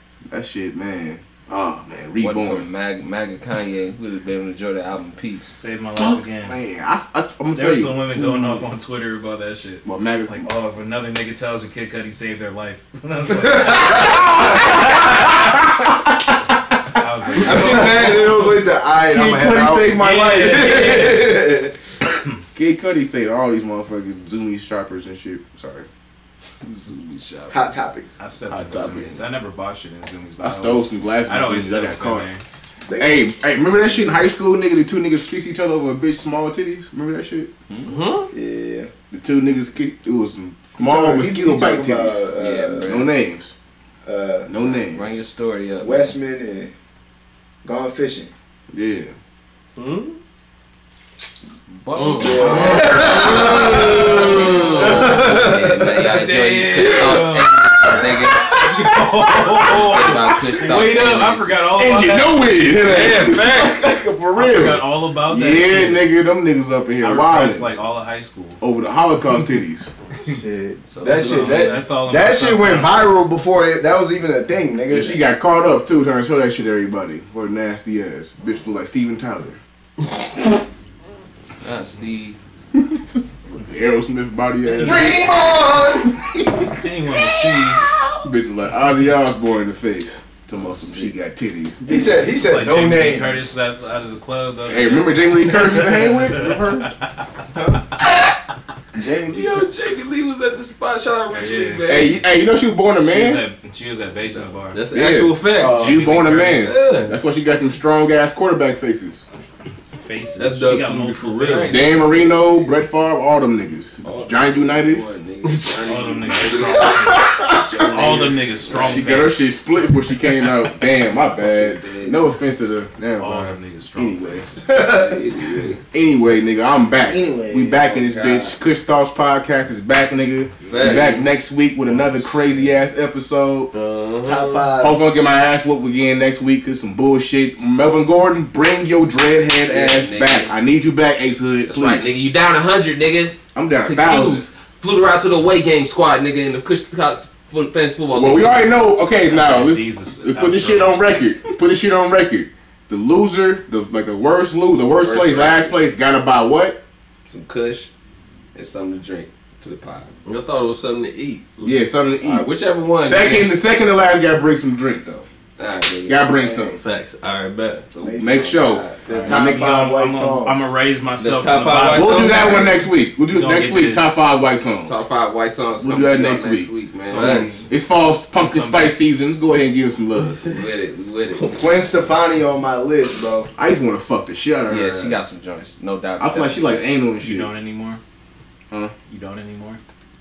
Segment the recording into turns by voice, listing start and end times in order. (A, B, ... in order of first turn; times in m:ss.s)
0:00.3-0:02.7 A
0:02.2-0:05.5 B
0:05.5-0:06.6 C
0:06.0-0:08.6 A
0:07.5-0:15.4 C
0:09.8-0:10.5 A
0:13.8-0:16.6 A
0:16.9-0:18.1 C
0:17.4-0:18.3 A
0:17.4-0:21.7 D
0:19.0-0:21.2 A
0:20.0-0:21.3 C
0:22.5-0:25.9 A
0:26.6-0:27.6 B
0:27.5-0:28.1 D
0:28.2-0:32.4 C
0:28.6-0:29.2 B
0:30.4-0:32.3 A
0:32.8-0:33.3 D
0:33.0-0:37.5 A
0:37.7-0:38.3 B
0:38.3-0:38.9 D
0:39.1-0:43.5 A
0:40.8-0:43.0 D
0:42.4-0:43.1 B
0:44.0-0:44.5 D
0:44.4-0:45.2 A
0:44.6-0:46.1 B
0:45.8-0:46.7 D
0:47.6-0:48.3 D
0:48.7-0:49.1 A
0:49.8-0:50.2 E
0:51.7-0:58.6 B
0:51.9-0:55.2 E
0:52.2-0:55.6 D
0:53.0-0:54.5 A
0:56.0-1:02.4 C
0:58.3-1:00.4 A
0:59.6-1:01.7 B
1:01.7-1:07.7 A
1:02.8-1:03.8 E
1:04.3-1:06.0 C
1:07.0-1:08.6 C
1:08.6-1:09.9 A
1:10.3-1:15.2 D
1:10.9-1:11.7 B
1:11.0-1:13.2 C
1:14.9-1:19.6 A
1:21.6-1:22.4 B
1:22.7-1:26.8 A
1:24.7-1:26.2 D
1:26.8-1:27.8 C
1:28.2-1:32.2 A
1:30.8-1:31.1 B
1:31.8-1:33.5 D
1:32.2-1:36.5 C
1:34.6-1:36.9 A
1:38.9-1:39.7 D
1:39.3-1:42.2 B
1:41.3-1:42.2 C
1:41.9-1:43.4 A
1:43.0-1:44.8 C
1:44.3-1:44.6 B
1:44.7-1:46.0 E
1:44.9-1:49.2 A
1:45.6-1:46.8 C
1:46.6-1:47.2 E
1:50.0-1:51.8 C
1:50.4-1:51.7 E
1:51.4-1:52.7 B
1:51.7-1:55.1 A
1:54.0-1:54.4 E
1:54.0-1:59.1 B
1:55.4-1:56.6 E
1:55.8-1:59.4 C
1:56.8-2:04.4 A
2:01.2-2:02.2 B
2:03.2-2:04.8 C
2:04.6-2:05.6 D
2:04.7-2:05.8 B
2:05.9-2:13.7 A
2:07.0-2:07.8 D
2:07.8-2:08.6 B
2:10.6-2:11.2 B
2:10.7-2:11.2 E
2:11.8-2:12.7 C
2:13.7-2:14.7 E
2:14.2-2:15.0 D
2:14.8-2:22.1 A
2:19.6-2:20.6 B
2:21.7-2:28.6 B
2:23.5-2:24.4 A
2:28.1-2:36.8 A
2:29.2-2:31.0 C
2:35.0-2:35.8 B
2:37.3-2:37.9 B
2:38.5-2:40.1 B
2:40.2-2:41.8 E
2:41.6-2:42.5 A
2:42.2-2:43.5 B
2:43.0-2:45.2 A
2:45.6-2:46.2 B
2:46.1-2:46.8 A
2:46.4-2:46.8 D
2:46.8-2:47.9 E
2:47.9-2:49.0 B
2:48.0-2:48.4 D
2:48.2-2:49.7 A
2:49.0-2:50.7 D
2:49.1-2:54.2 C
2:51.2-2:52.7 E
2:51.9-2:55.0 A
2:54.8-2:57.5 B
2:55.8-2:56.7 A
2:57.1-2:57.7 E
2:57.1-2:57.7 C
2:57.7-3:00.6 A
2:58.3-2:59.0 C
3:00.5-3:01.6 B
3:01.4-3:03.5 D
3:03.6-3:05.2 A
3:04.7-3:06.8 B
3:06.2-3:07.5 A
3:07.2-3:08.0 C
3:09.1-3:09.8 C